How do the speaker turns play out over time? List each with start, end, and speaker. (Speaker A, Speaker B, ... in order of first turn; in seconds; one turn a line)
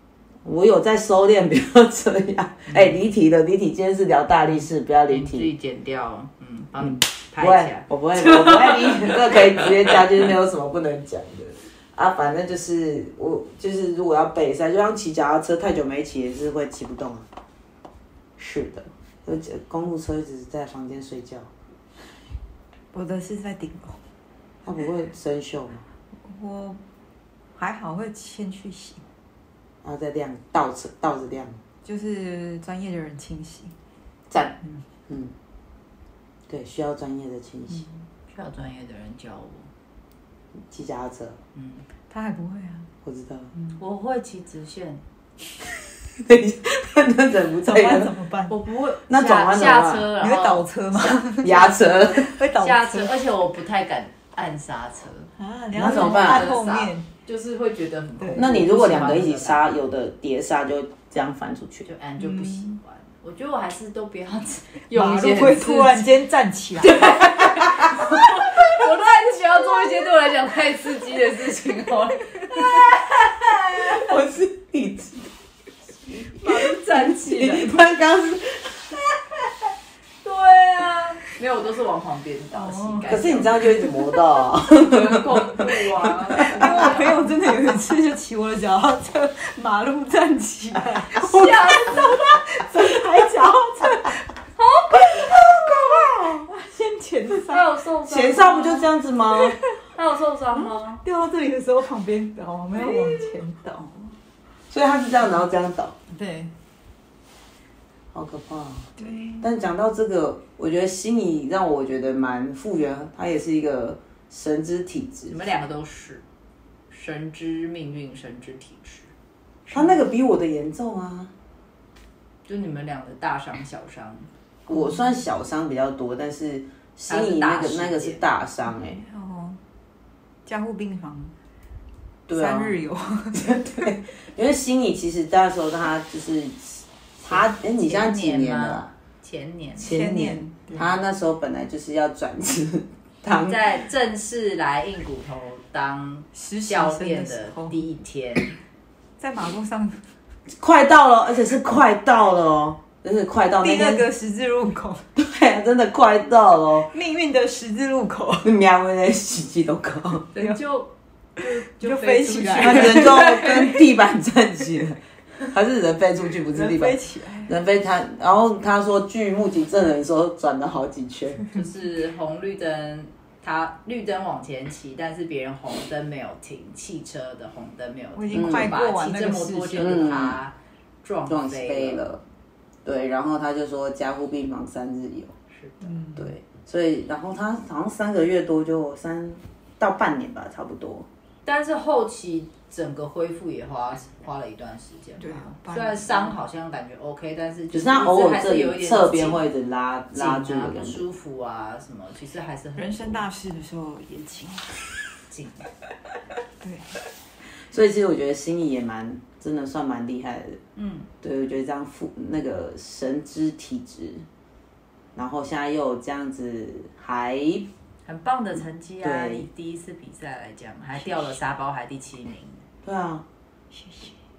Speaker A: 0.5-5.5
Speaker B: 2.7-2.9
Speaker B: 5.1-10.2
Speaker A: 6.8-17.3
Speaker A: 18.4-21.5
Speaker C: 22.9-24.0
Speaker A: 24.6-25.8
Speaker C: 26.2-26.8
Speaker C: 27.6-29.0
Speaker A: 29.8-31.6
Speaker C: 31.8-33.8
Speaker A: 34.3-34.6
Speaker A: 35.1-35.3
Speaker A: 36.5-37.9
Speaker B: 38.3-39.7
Speaker A: 40.7-41.4
Speaker B: 41.5-41.9
Speaker C: 42.1-42.9
Speaker A: 43.0-43.5
Speaker B: 43.8-45.0
Speaker A: 46.2-48.1
Speaker C: 47.6-48.6
Speaker B: 48.5-50.7
Speaker A: 49.1-50.1
Speaker C: 50.2-53.2
Speaker A: 51.4-52.3
Speaker B: 52.6-59.7
Speaker C: 55.4-57.1
Speaker A: 55.7-56.6
Speaker C: 58.2-58.5
Speaker A: 58.4-61.9
Speaker B: 61.9-66.1
Speaker C: 62.2-62.8
Speaker C: 64.9-67.5
Speaker B: 66.8-74.2
Speaker A: 73.7-75.3
Speaker A: 76.1-79.0
Speaker B: 76.3-77.8
Speaker B: 80.2-83.7
Speaker C: 82.5-83.9
Speaker A: 83.1-86.9
Speaker B: 84.8-87.2
Speaker C: 86.4-94.2
Speaker B: 91.2-92.3
Speaker B: 94.6-95.1
Speaker C: 95.0-97.7
Speaker B: 97.5-98.9
Speaker A: 98.1-99.6
Speaker B: 99.9-101.0
Speaker C: 101.0-104.2
Speaker B: 102.8-103.3
Speaker A: 104.7-106.0
Speaker C: 106.1-106.5
Speaker A: 108.1-115.5
Speaker C: 109.0-109.5
Speaker B: 115.3-116.2
Speaker B: 116.9-119.1
Speaker A: 119.7-121.3
Speaker B: 122.5-124.3
Speaker A: 124.7-129.0
Speaker C: 124.7-125.0
Speaker B: 127.1-128.2
Speaker C: 128.8-129.6
Speaker C: 130.5-131.3
Speaker A: 132.3-132.8
Speaker C: 132.3-133.6
Speaker A: 133.4-138.9
Speaker B: 137.3-140.0
Speaker A: 139.8-143.7
Speaker C: 139.8-140.8
Speaker B: 143.3-148.6
Speaker C: 146.3-147.8
Speaker C: 149.2-150.0
Speaker A: 150.6-154.1
Speaker C: 153.6-155.1
Speaker A: 155.2-156.9
Speaker C: 156.9-158.5
Speaker A: 158.4-160.3
Speaker B: 160.3-163.8
Speaker C: 160.4-160.6
Speaker C: 161.4-163.7
Speaker A: 162.6-165.0
Speaker A: 165.5-171.5
Speaker C: 166.5-167.5
Speaker B: 171.5-182.0
Speaker C: 178.2-180.2
Speaker A: 178.3-178.8
Speaker A: 179.8-180.4
Speaker A: 181.3-182.2
Speaker A: 182.8-185.3
Speaker B: 185.5-185.9
Speaker C: 185.8-186.3
Speaker A: 186.2-191.1
Speaker B: 191.4-199.4
Speaker C: 195.2-196.3
Speaker A: 197.7-201.0
Speaker B: 200.1-203.2
Speaker C: 202.8-204.7
Speaker B: 205.3-205.7
Speaker C: 206.6-206.9
Speaker A: 207.7-210.6
Speaker B: 210.8-211.1
Speaker A: 211.2-214.2
Speaker A: 215.2-217.7
Speaker B: 218.1-222.6
Speaker A: 219.0-219.5
Speaker A: 222.8-223.2
Speaker C: 223.7-224.2